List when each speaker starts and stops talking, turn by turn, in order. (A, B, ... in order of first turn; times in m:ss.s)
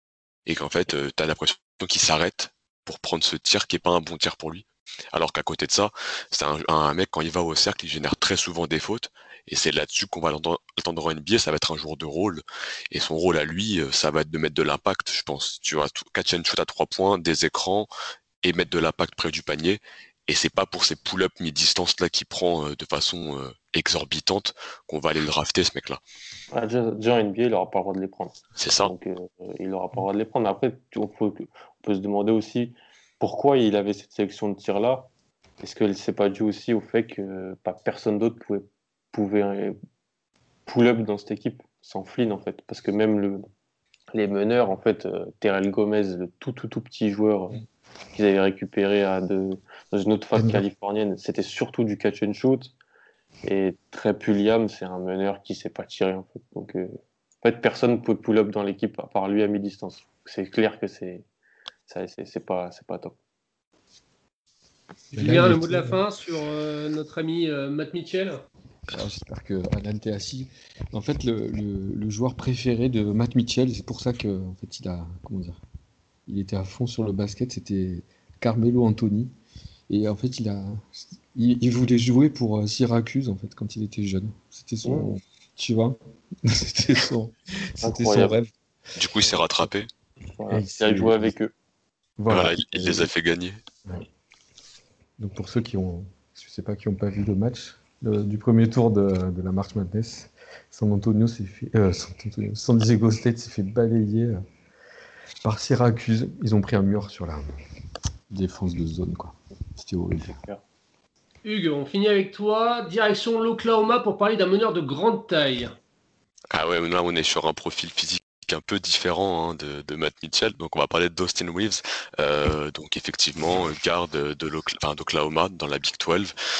0:00.4-0:17.9 A
0:18.4-0:26.0 A
0:26.5-0:39.8 B
0:28.6-0:28.9 A
0:40.6-0:43.4 B
0:44.1-0:52.7 B
0:50.3-0:50.6 C
0:53.4-1:01.2 B
1:01.9-1:03.1 B
1:05.1-1:08.4 D
1:05.2-1:06.0 C
1:08.9-1:15.6 C
1:16.3-1:19.3 C
1:19.9-1:28.5 C
1:24.8-1:25.1 B
1:27.8-1:28.4 B
1:29.0-1:29.9 A
1:30.4-1:31.5 B
1:30.5-1:31.3 C
1:32.2-1:33.1 C
1:32.3-1:33.6 A
1:35.2-1:44.4 C
1:45.4-1:47.4 C
1:48.3-1:50.4 C
1:50.2-1:50.6 B
1:51.4-1:55.7 D
1:56.5-2:06.3 A